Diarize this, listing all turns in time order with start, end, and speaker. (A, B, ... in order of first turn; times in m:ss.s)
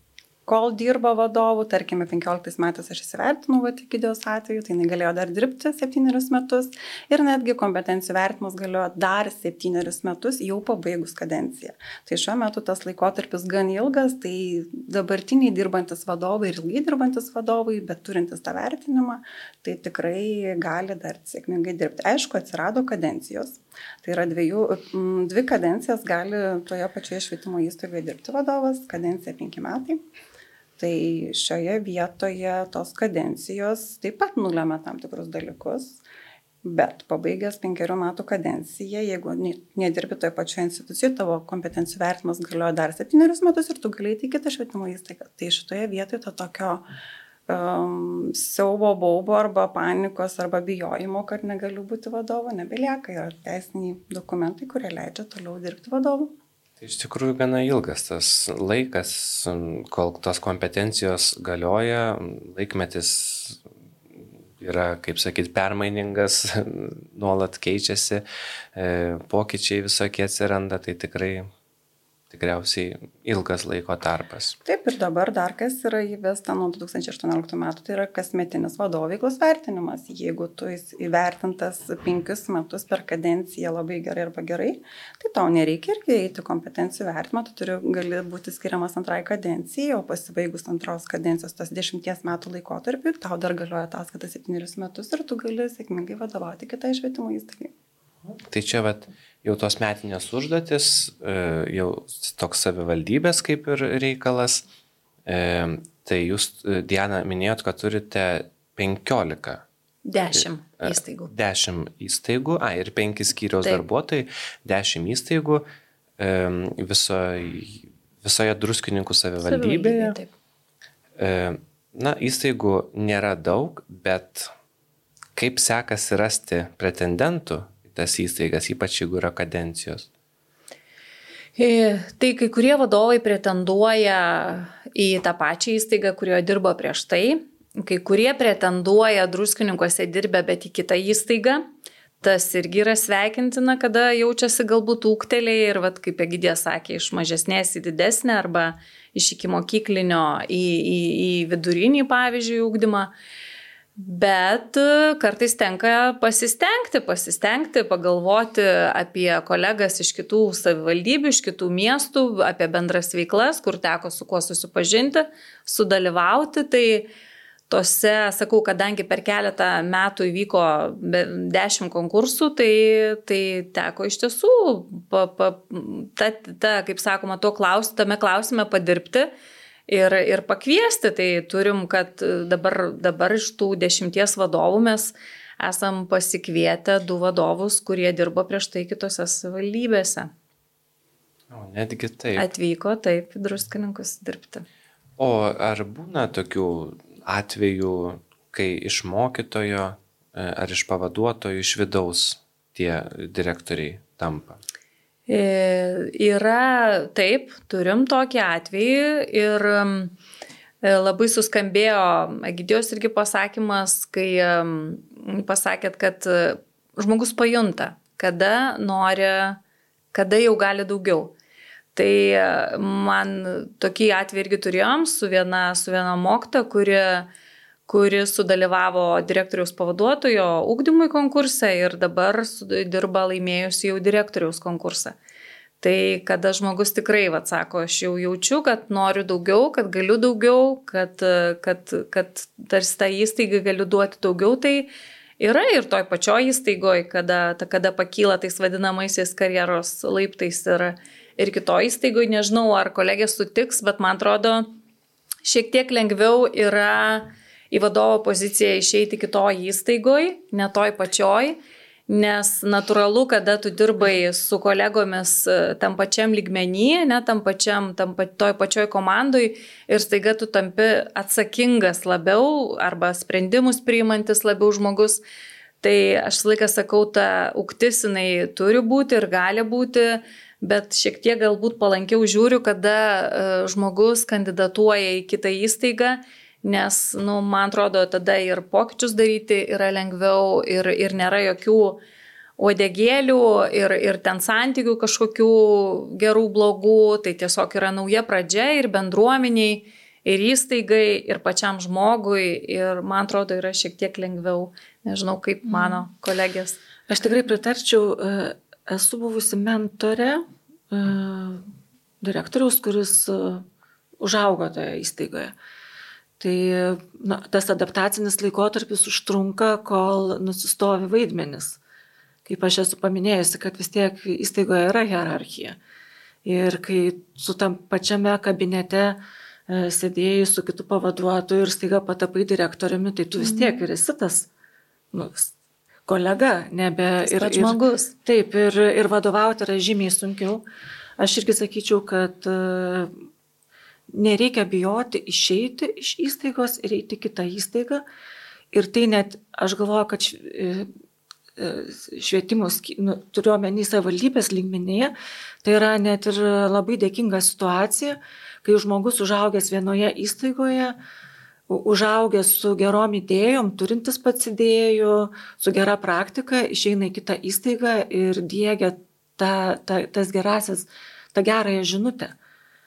0:00.5-0:30.0 A
0:30.8-0:36.0 A
0:36.6-0:46.8 A
0:47.5-0:56.3 A
0:56.8-1:03.6 B
1:04.6-1:08.2 B
1:08.8-1:11.5 B
1:12.3-1:14.6 B
1:14.6-1:37.7 A
1:38.3-1:44.6 B
1:45.3-1:49.6 B
1:50.1-1:51.3 C
1:50.3-1:55.6 B
1:56.2-2:00.2 B
1:59.4-2:00.3 C
2:01.2-2:04.5 B
2:05.4-2:10.1 B
2:11.6-2:21.6 C
2:22.2-2:33.1 C
2:34.0-2:47.1 C
2:47.7-2:59.3 C
2:59.9-3:10.3 C
3:11.5-3:12.5 B
3:12.4-3:14.6 C
3:15.2-3:24.6 B
3:25.3-3:30.2 C
3:30.8-3:39.6 C
3:40.1-3:41.3 C
3:42.0-3:47.3 C
3:47.9-3:55.2 C
3:55.8-4:14.7 C
4:15.4-4:35.2 C
4:35.8-4:52.0 C
4:52.6-5:06.8 C
5:05.7-5:06.0 D
5:07.1-5:11.7 D
5:12.2-5:13.6 D
5:14.2-5:15.5 D
5:16.4-5:21.8 D
5:22.5-5:25.8 D
5:26.4-5:34.5 D
5:33.4-5:33.8 C
5:35.1-5:35.5 D
5:36.1-5:40.6 D
5:37.2-5:38.1 C
5:41.2-5:43.2 D
5:44.1-5:48.0 D
5:48.7-5:50.9 D
5:51.6-5:55.1 D
5:55.6-6:01.0 D
6:01.7-6:12.3 D